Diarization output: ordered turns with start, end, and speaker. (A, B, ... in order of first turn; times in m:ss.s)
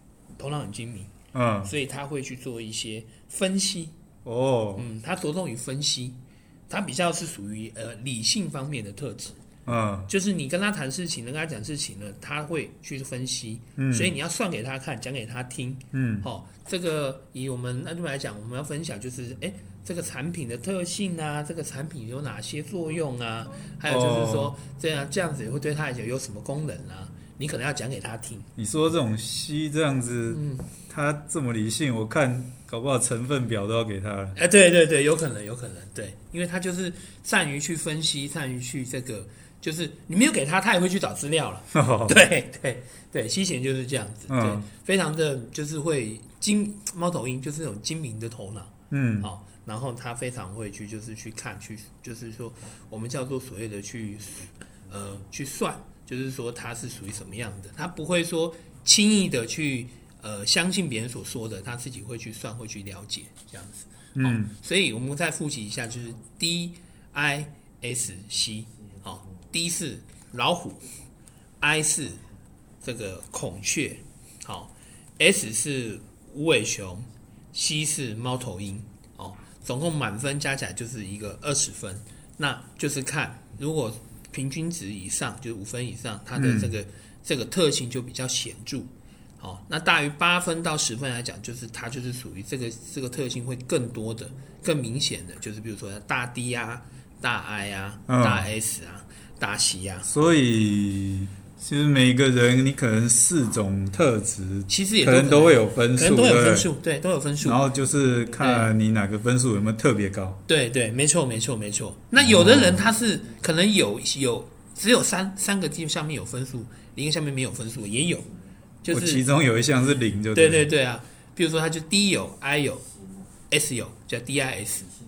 0:00.4-0:01.1 A
0:01.3-0:01.7 B
0:01.6-0:03.9 A
0:04.2-0:04.8 B
0:04.8-0:09.4 A
0:09.6-0:10.1 B
0:10.1-0:28.5 A
0:13.8-0:14.1 B
0:15.9-0:16.3 B
0:23.8-0:24.5 B
0:28.6-0:34.4 B
0:30.3-0:30.7 A
0:34.3-1:10.9 A
0:41.7-0:42.2 B
0:44.3-0:44.6 B
0:48.9-0:49.3 B
1:04.2-1:04.5 B
1:11.6-1:12.2 A
1:12.8-1:40.1 A
1:26.4-1:26.7 B
1:38.1-1:38.5 B
1:40.0-1:46.7 B
1:44.7-1:47.6 A
1:47.4-1:50.4 B
1:48.4-1:48.7 A
1:50.5-1:59.2 A
1:52.2-1:52.8 B
1:58.9-2:00.7 B
2:00.3-2:02.9 A
2:03.5-2:05.0 A